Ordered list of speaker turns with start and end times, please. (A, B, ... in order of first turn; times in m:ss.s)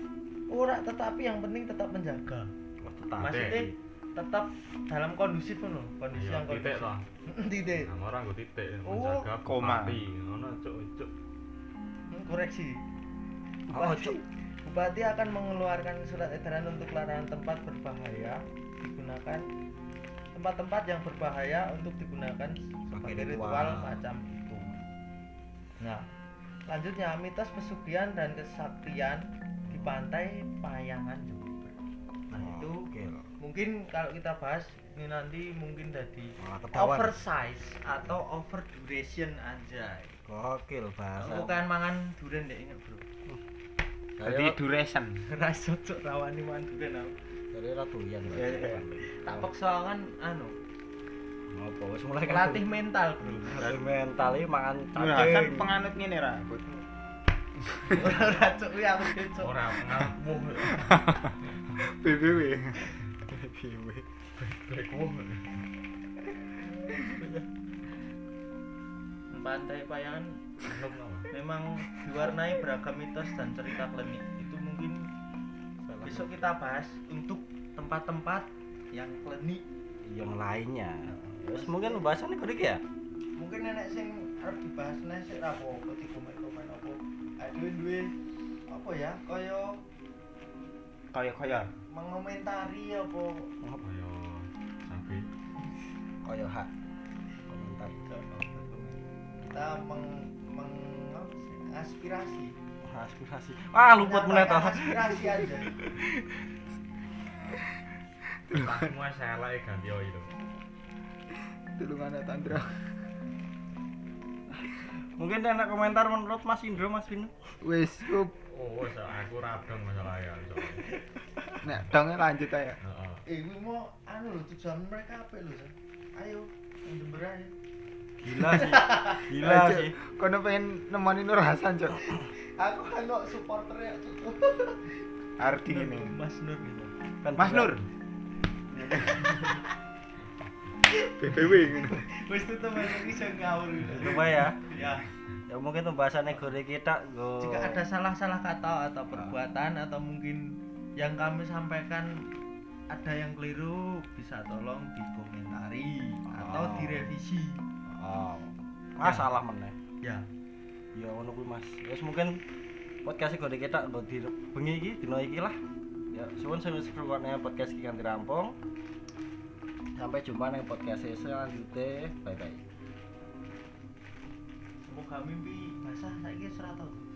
0:00.5-0:02.5 A
0:02.8-0:03.7 B
0:03.2-0:03.6 C
0:03.2-0:07.9 A
0:06.1-0:07.1 C
0:07.8-0:11.1 C
0:08.8-0:09.3 A
0:09.4-0:10.0 D
0:12.1-0:12.8 A
0:13.7-0:14.2 B
0:13.7-0:19.4 A
0:20.3-0:24.7 A
0:22.9-0:24.0 B
0:25.8-0:26.1 A
0:26.7-0:31.7 A
0:29.7-0:29.9 B
0:32.3-0:32.8 A
0:32.4-0:33.3 B
0:33.4-0:40.2 A
0:36.4-0:37.2 B
0:40.3-0:41.6 B
0:41.2-0:43.0 A
0:44.2-0:44.6 B
0:44.2-0:45.2 D
0:45.3-0:47.1 A
0:47.5-0:49.5 B
0:48.3-0:48.8 D
0:49.0-0:50.5 A
0:51.5-0:52.6 B
0:52.2-0:53.7 A
0:53.4-0:55.7 B
0:54.9-0:56.6 D
0:57.6-0:58.0 D
0:57.8-0:59.5 A
0:59.4-1:02.5 C
1:00.6-1:02.8 D
1:03.3-1:04.1 B
1:04.3-1:05.6 C
1:06.9-1:07.4 B
1:09.3-1:10.4 A
1:10.6-1:11.3 C
1:11.3-1:15.0 A
1:15.8-1:16.5 B
1:16.0-1:19.6 A
1:20.0-1:22.8 B
1:21.1-1:22.1 A
1:23.4-1:28.1 A
1:28.7-1:29.8 A
1:31.1-1:31.7 D
1:31.9-1:33.5 A
1:33.8-1:35.3 C
1:36.2-1:36.7 B
1:37.5-1:38.0 B
1:38.1-1:42.5 A
1:42.8-1:46.4 B
1:44.0-1:45.8 A
1:48.5-1:48.9 D
1:48.5-1:50.3 C
1:51.8-1:52.8 D
1:54.6-1:57.3 B
1:57.6-1:58.3 D
1:58.5-2:00.9 C
2:01.6-2:02.8 D
2:02.8-2:03.2 C
2:03.3-2:07.5 A
2:08.2-2:09.9 B
2:08.5-2:09.2 A
2:09.3-2:12.1 D
2:12.0-2:15.0 A
2:15.4-2:16.1 D
2:15.6-2:16.9 A
2:17.2-2:17.8 B
2:17.4-2:17.8 D
2:18.7-2:19.4 D
2:20.9-2:25.0 A
2:21.1-2:22.0 D
2:23.8-2:24.6 B
2:25.5-2:27.8 B
2:27.4-2:32.1 A
2:32.9-2:37.6 A
2:36.3-2:37.1 B
2:37.9-2:39.7 B
2:39.0-2:39.3 A
2:40.9-2:42.4 B
2:43.0-2:45.6 B
2:46.1-2:48.5 B
2:50.0-2:52.6 B
2:54.8-2:57.0 A